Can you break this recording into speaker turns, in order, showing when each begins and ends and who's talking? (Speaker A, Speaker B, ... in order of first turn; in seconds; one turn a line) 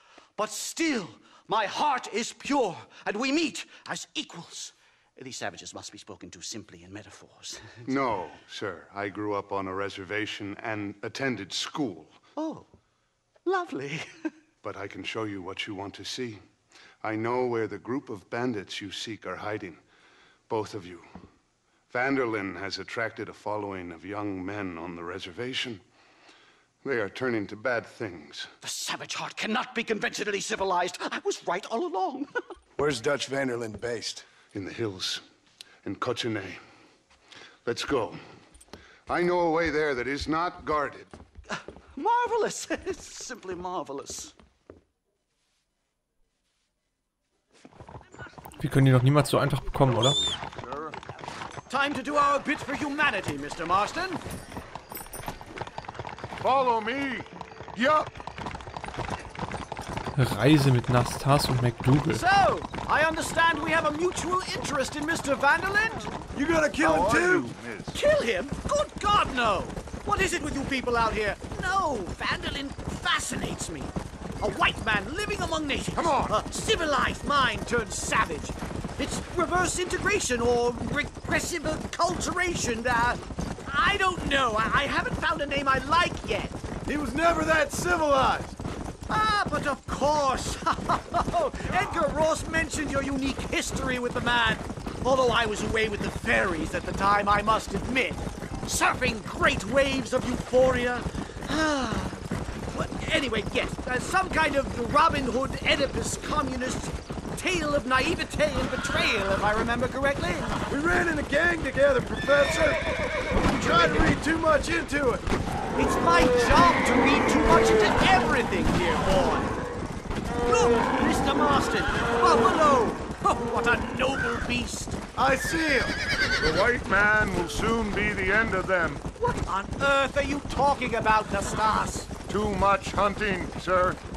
Speaker A: 0.4-7.8
Speaker B: 7.8-12.2
Speaker A: 12.4-12.7
Speaker A: 13.4-14.3
Speaker B: 14.6-16.4
Speaker B: 17.0-19.8
Speaker B: 20.5-21.1
Speaker B: 21.9-25.8
Speaker B: 26.8-28.5
Speaker A: 28.6-32.4
Speaker C: 32.8-34.2
Speaker B: 34.5-35.2
Speaker B: 35.8-36.6
Speaker B: 37.6-38.2
Speaker B: 39.1-41.1
Speaker A: 41.5-44.3
Speaker D: 48.6-50.2
Speaker B: 50.4-51.0
Speaker A: 51.7-54.2
Speaker B: 56.4-58.1
Speaker D: 60.1-62.2
Speaker A: 62.1-66.2
Speaker C: 66.3-67.5
Speaker B: 66.8-68.0
Speaker A: 67.9-86.6
Speaker B: 76.0-76.3
Speaker C: 86.9-88.5
Speaker A: 89.1-110.6
Speaker C: 110.7-112.8
Speaker C: 113.5-115.2
Speaker A: 113.7-113.9
Speaker A: 115.8-119.5
Speaker A: 120.4-125.0
Speaker C: 125.2-126.0
Speaker B: 126.4-129.0
Speaker A: 129.2-132.1
Speaker B: 132.3-134.0